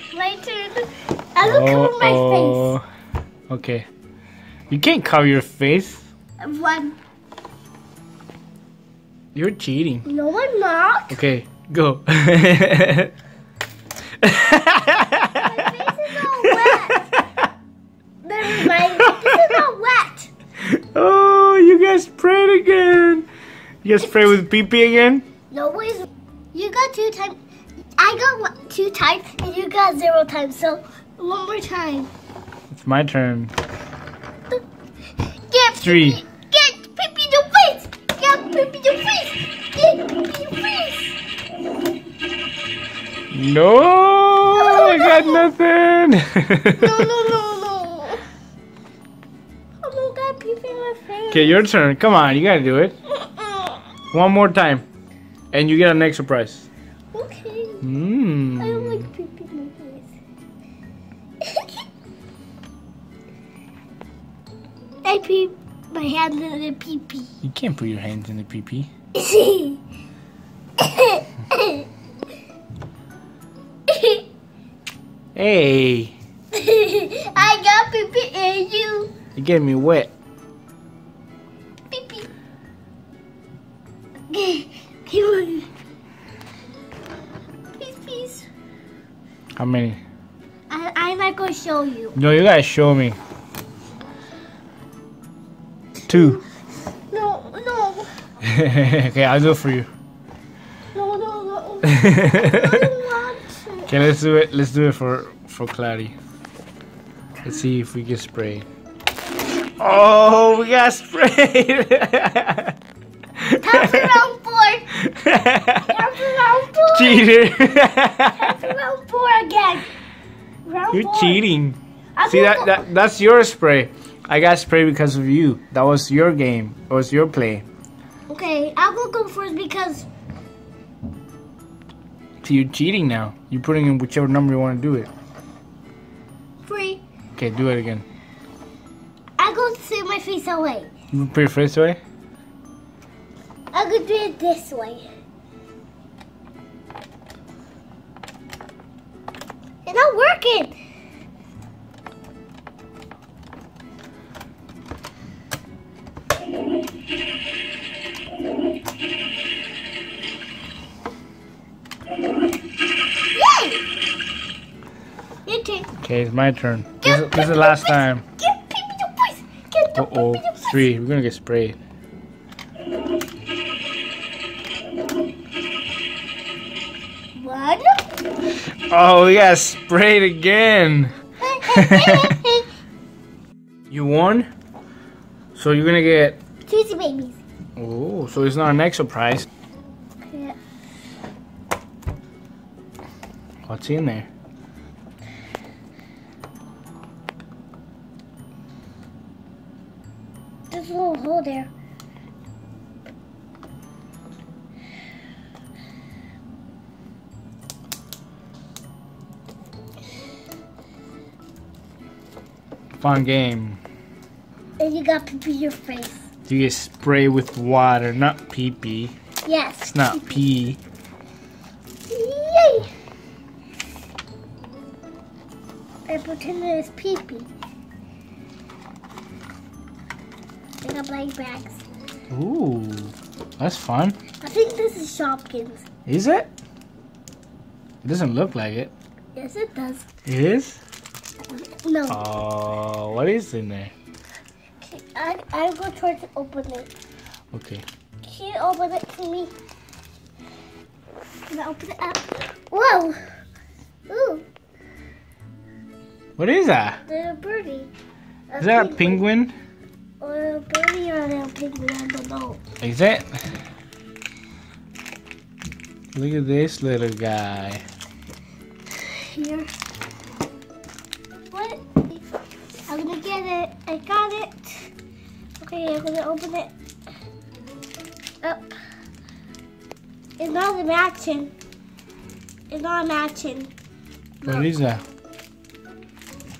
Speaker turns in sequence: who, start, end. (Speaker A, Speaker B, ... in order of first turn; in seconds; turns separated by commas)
Speaker A: 0.1-2.8, Speaker B: 1.4-2.8, Speaker B: 3.5-3.9, Speaker B: 4.7-6.0, Speaker A: 6.4-7.0, Speaker B: 9.3-10.0, Speaker A: 10.0-11.2, Speaker B: 11.1-13.1, Speaker B: 14.2-17.5, Speaker A: 15.3-17.1, Speaker A: 18.2-20.3, Speaker B: 18.5-19.6, Speaker B: 20.6-23.3, Speaker B: 23.8-25.2, Speaker A: 24.0-24.3, Speaker A: 25.5-27.4, Speaker A: 28.0-32.1, Speaker B: 32.7-33.5, Speaker A: 35.5-41.1, Speaker B: 35.8-36.2, Speaker B: 43.3-47.1, Speaker A: 44.5-45.5, Speaker A: 46.7-48.2, Speaker A: 49.8-51.6, Speaker B: 51.3-53.0, Speaker A: 53.1-53.8, Speaker B: 54.1-54.8, Speaker B: 55.5-56.7, Speaker A: 57.1-57.8, Speaker B: 57.8-59.1, Speaker A: 58.6-60.1, Speaker A: 61.4-61.8, Speaker A: 65.0-67.3, Speaker B: 67.4-68.9, Speaker A: 69.1-69.8, Speaker A: 70.8-71.9, Speaker A: 73.9-74.2, Speaker B: 75.3-76.2, Speaker A: 76.5-79.1, Speaker B: 79.3-80.1, Speaker A: 81.9-82.3, Speaker A: 84.3-85.7, Speaker A: 87.8-88.5, Speaker B: 89.6-90.0, Speaker A: 90.7-92.2, Speaker B: 92.2-93.2, Speaker B: 96.1-96.4, Speaker A: 96.1-96.4, Speaker A: 97.1-98.1, Speaker B: 98.4-99.9, Speaker A: 100.9-103.9, Speaker B: 101.9-102.9, Speaker B: 103.9-106.1, Speaker B: 107.4-108.7, Speaker B: 109.8-112.8, Speaker B: 113.4-114.1, Speaker A: 113.6-114.9, Speaker B: 114.9-116.1, Speaker A: 115.7-119.9, Speaker B: 116.9-118.7, Speaker A: 120.6-121.4, Speaker B: 120.9-127.7, Speaker A: 122.2-122.8, Speaker A: 128.3-130.1, Speaker B: 132.4-135.1, Speaker A: 136.6-137.0, Speaker B: 137.4-138.0, Speaker A: 139.4-140.9, Speaker B: 141.1-142.0, Speaker A: 143.7-145.0, Speaker A: 149.8-150.7, Speaker A: 163.3-163.8, Speaker A: 165.4-165.9, Speaker B: 166.0-168.2, Speaker A: 167.0-170.8, Speaker B: 170.0-171.8, Speaker A: 177.3-178.1, Speaker B: 178.9-181.2, Speaker A: 181.4-182.7, Speaker B: 181.7-182.4, Speaker B: 183.9-184.5, Speaker B: 185.5-186.4, Speaker A: 186.7-187.4, Speaker B: 187.8-189.5, Speaker A: 190.3-190.6, Speaker B: 193.7-194.3, Speaker A: 200.7-201.7, Speaker B: 213.0-213.8, Speaker A: 214.8-216.2, Speaker B: 216.5-219.1, Speaker A: 219.4-220.4, Speaker B: 219.9-220.8, Speaker A: 222.1-222.9, Speaker A: 226.1-227.5, Speaker A: 230.8-231.8, Speaker B: 232.3-234.2, Speaker A: 234.4-235.8, Speaker B: 236.1-236.5, Speaker B: 238.0-238.9, Speaker A: 239.3-240.1, Speaker B: 240.2-240.8, Speaker A: 241.5-242.2, Speaker B: 242.1-243.9, Speaker A: 244.8-246.9, Speaker B: 247.5-247.8, Speaker A: 248.2-249.5, Speaker A: 251.5-253.2, Speaker A: 254.1-254.4, Speaker B: 256.4-257.0, Speaker A: 257.1-257.9, Speaker A: 258.5-259.2, Speaker B: 258.6-259.5, Speaker A: 260.2-262.6, Speaker B: 262.8-263.4, Speaker B: 266.1-267.8, Speaker A: 268.9-269.7, Speaker A: 271.5-272.2, Speaker A: 272.9-274.9, Speaker A: 275.6-276.7, Speaker A: 278.4-278.7, Speaker A: 280.4-281.5, Speaker A: 282.7-283.7, Speaker A: 284.4-284.7, Speaker B: 284.4-285.0